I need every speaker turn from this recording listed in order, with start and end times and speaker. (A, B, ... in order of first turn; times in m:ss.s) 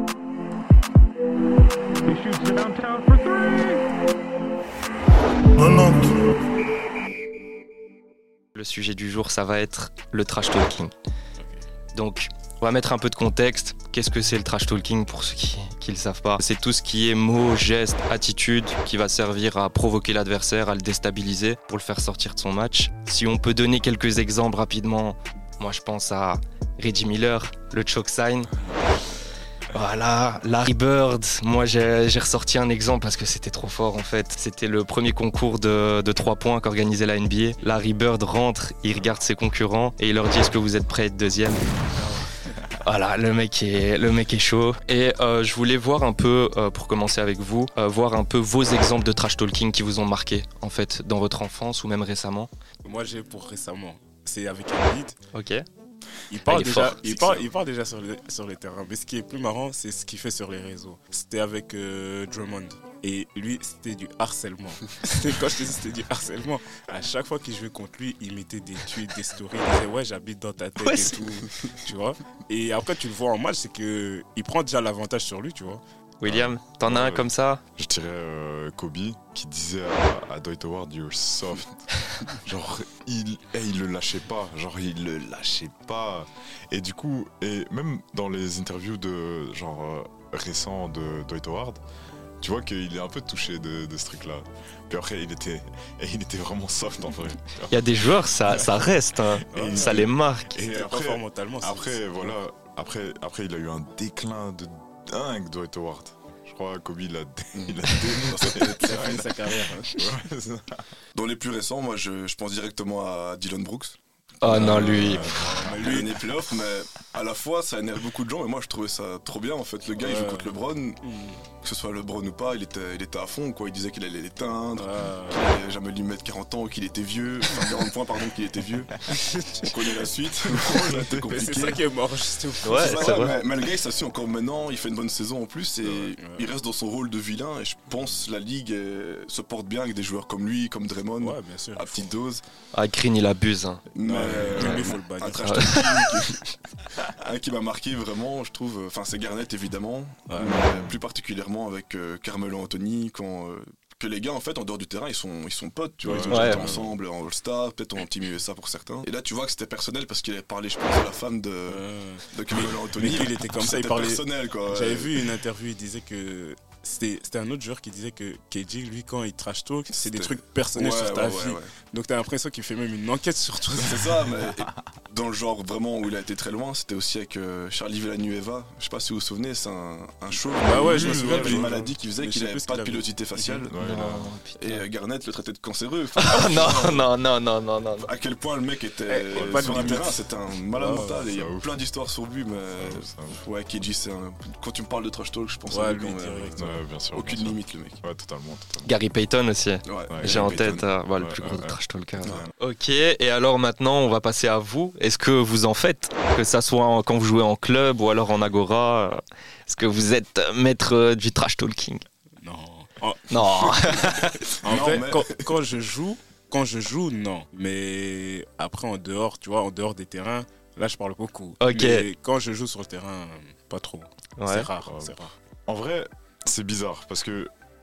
0:02.1-0:03.8 A
0:05.6-0:06.2 A
0:08.5-0:10.9 B
0:11.9-0:28.6 B
0:28.6-0:29.1 C
0:29.7-0:41.7 B
0:38.9-0:39.2 D
0:42.8-0:52.5 B
0:52.8-0:55.2 C
0:55.3-0:55.6 B
0:56.3-1:15.8 C
0:56.5-0:57.1 B
1:10.8-1:11.2 B
1:16.2-1:17.6 B
1:16.2-1:31.8 D
1:32.4-1:50.8 D
1:37.7-1:40.6 B
1:39.5-1:42.4 C
1:47.5-1:49.3 E
1:48.6-1:50.0 C
1:51.1-2:01.0 E
1:54.4-1:55.3 B
1:54.5-1:55.8 D
1:54.6-1:56.2 C
2:00.0-2:01.4 C
2:01.6-2:08.9 E
2:04.8-2:05.5 C
2:09.1-2:09.8 C
2:09.5-2:11.8 E
2:10.4-2:11.4 D
2:11.3-2:13.4 C
2:12.6-2:13.4 B
2:12.6-2:22.4 E
2:15.8-2:16.5 C
2:21.2-2:22.1 C
2:22.7-2:23.8 B
2:23.9-2:26.4 E
2:24.0-2:24.9 D
2:24.1-2:25.9 C
2:25.4-2:26.4 B
2:27.0-2:45.3 E
2:30.3-2:30.6 C
2:30.4-2:31.0 D
2:36.0-2:36.9 D
2:36.3-2:36.6 B
2:41.7-2:54.4 C
2:49.9-2:51.7 E
2:53.8-3:03.8 E
3:00.6-3:03.7 C
3:00.8-3:01.8 D
3:03.7-3:04.3 D
3:03.8-3:04.8 B
3:04.6-3:07.1 E
3:06.2-3:08.1 B
3:08.0-3:18.0 E
3:09.1-3:10.2 C
3:09.3-3:10.1 D
3:10.7-3:11.3 C
3:11.2-3:11.8 D
3:12.8-3:13.4 D
3:15.7-3:16.8 C
3:16.6-3:18.9 D
3:18.8-3:32.0 B
3:19.8-3:20.8 E
3:20.1-3:22.5 D
3:22.2-3:22.5 E
3:32.4-3:45.3 C
3:33.3-3:34.6 B
3:34.6-3:35.4 E
3:41.6-3:42.1 B
3:44.4-3:44.7 B
3:44.8-3:45.1 D
3:45.7-3:47.5 D